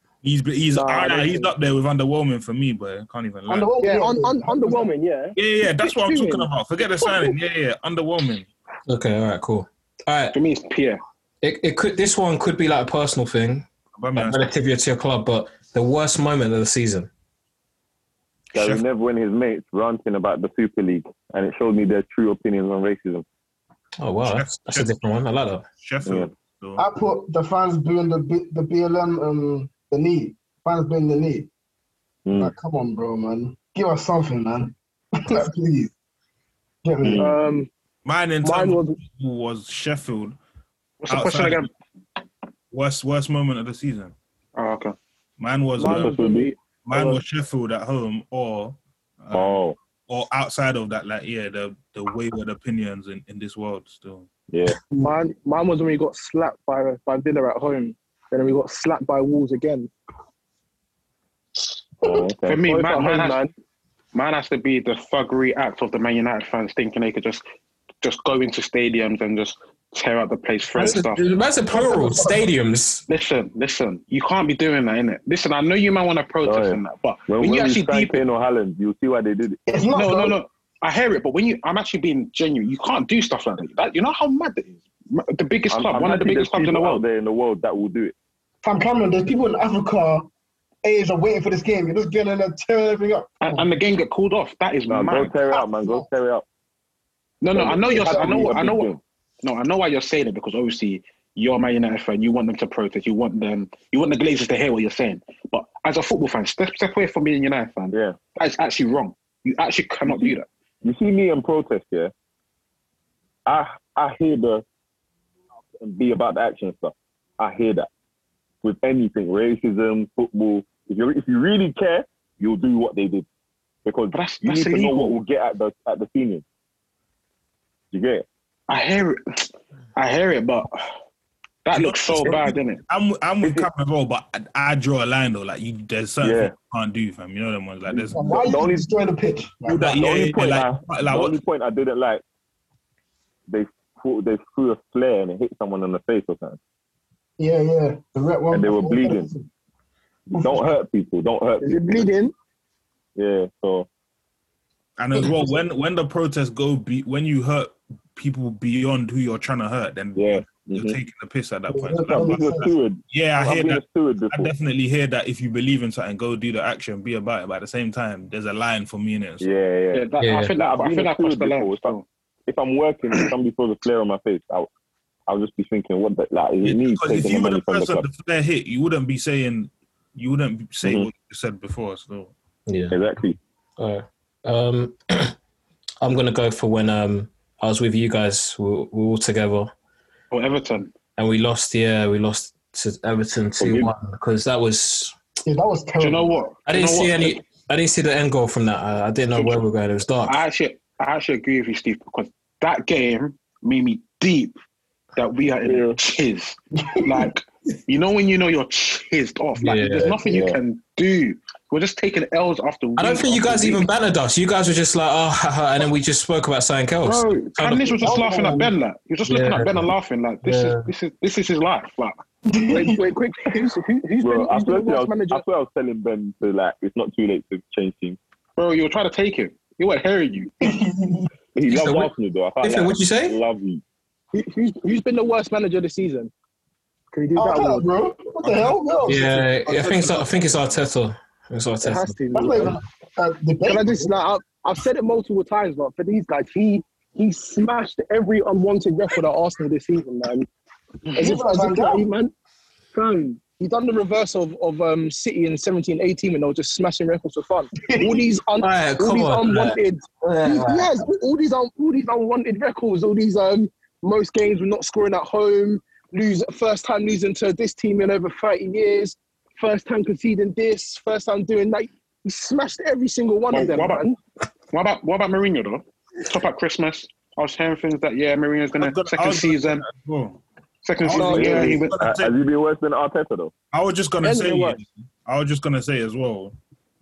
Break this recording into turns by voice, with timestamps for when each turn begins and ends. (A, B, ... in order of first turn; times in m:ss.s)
0:00.2-0:03.7 A
0:00.7-0:01.5 B
0:03.5-0:04.9 C
0:03.8-0:06.5 B
0:05.4-0:08.5 A
0:07.0-0:07.3 B
0:08.9-0:10.4 D
0:10.3-0:11.0 E
0:11.4-0:17.1 D
0:14.0-0:14.5 A
0:18.5-0:18.8 A
0:18.5-0:23.2 F
0:24.0-0:25.6 D
0:24.2-0:25.0 A
0:25.8-0:26.8 A
0:26.8-0:31.5 C
0:32.2-0:32.5 F
0:32.4-0:35.9 C
0:36.8-0:37.3 C
0:37.0-0:37.4 F
0:37.2-0:37.7 B
0:38.0-0:40.4 A
0:38.4-0:39.0 B
0:41.0-0:41.7 E
0:41.1-0:41.7 A
0:42.7-0:44.2 A
0:44.6-0:45.0 E
0:45.4-0:46.2 A
0:45.8-0:47.2 B
0:45.9-0:46.5 F
0:46.9-0:54.3 A
0:49.3-0:49.8 F
0:54.5-0:54.8 F
0:54.9-0:59.9 B
1:02.0-1:02.7 F
1:02.4-1:03.4 E
1:02.6-1:03.5 B
1:04.1-1:07.4 E
1:08.0-1:11.3 E
1:10.8-1:13.0 D
1:11.7-1:12.5 C
1:13.1-1:18.2 E
1:16.4-1:19.6 F
1:19.7-1:20.4 C
1:19.9-1:27.0 E
1:25.7-1:28.2 F
1:28.6-1:30.3 C
1:30.8-1:33.7 C
1:33.4-1:35.4 E
1:34.9-1:36.5 F
1:35.5-1:36.1 C
1:37.4-1:50.5 E
1:37.5-1:39.0 F
1:38.0-1:38.5 C
1:47.9-1:48.2 F
1:50.0-1:52.1 F
1:53.5-1:54.6 F
1:55.7-1:57.9 F
1:58.6-2:03.3 F
2:03.8-2:06.4 F
2:04.1-2:05.2 E
2:07.9-2:08.2 F
2:08.7-2:10.8 E
2:11.6-2:12.8 E
2:11.7-2:18.4 A
2:13.4-2:13.7 F
2:16.2-2:16.5 F
2:17.9-2:19.9 C
2:18.3-2:18.9 F
2:19.7-2:21.4 A
2:19.7-2:22.2 F
2:23.5-2:26.6 F
2:27.4-2:29.5 C
2:28.5-2:29.3 F
2:30.3-2:32.1 F
2:30.3-2:30.7 C
2:31.6-2:32.3 B
2:33.2-2:33.9 F
2:35.0-2:49.5 A
2:40.2-2:41.0 F
2:41.7-2:42.7 C
2:42.1-2:44.5 F
2:49.4-2:52.0 F
2:49.9-2:52.1 E
2:50.2-2:50.5 D
2:52.5-2:54.7 F
2:55.3-2:58.1 F
2:56.6-3:02.3 A
3:00.8-3:01.1 F
3:02.7-3:03.0 D
3:02.9-3:03.4 F
3:03.8-3:05.3 D
3:06.0-3:09.7 D
3:10.3-3:10.9 E
3:11.2-3:15.2 D
3:13.6-3:13.9 F
3:15.4-3:16.4 C
3:16.0-3:17.5 E
3:16.7-3:20.4 D
3:19.4-3:19.6 E
3:20.2-3:24.6 E
3:25.2-3:33.9 E
3:25.6-3:26.0 F
3:27.0-3:27.3 C
3:29.6-3:30.2 D
3:30.3-3:30.6 F
3:33.0-3:38.2 D
3:37.0-3:42.2 E
3:38.0-3:38.7 C
3:39.2-3:40.9 D
3:42.5-3:43.0 C
3:42.7-3:45.4 B
3:44.2-3:48.2 F
3:48.6-3:50.5 E
3:50.6-3:51.3 C
3:51.6-3:53.8 F
3:51.7-3:52.1 D
3:52.6-3:53.4 D
3:54.3-3:56.3 B
3:57.1-3:57.9 B
3:57.4-3:59.5 C
3:58.4-3:58.8 A
3:59.1-4:02.7 D
3:59.7-4:00.5 A
4:01.8-4:02.7 B
4:02.3-4:04.1 C
4:03.6-4:10.5 B
4:11.2-4:12.3 B
4:11.2-4:12.1 C
4:12.9-4:34.2 B
4:17.8-4:18.3 C
4:18.6-4:20.9 D
4:33.5-4:34.1 E
4:34.7-4:39.8 E
4:38.8-4:40.4 A
4:40.8-4:42.0 E
4:41.0-4:42.3 A
4:41.2-4:41.7 B
4:41.2-4:43.5 F
4:43.7-4:46.6 A
4:44.2-4:44.8 B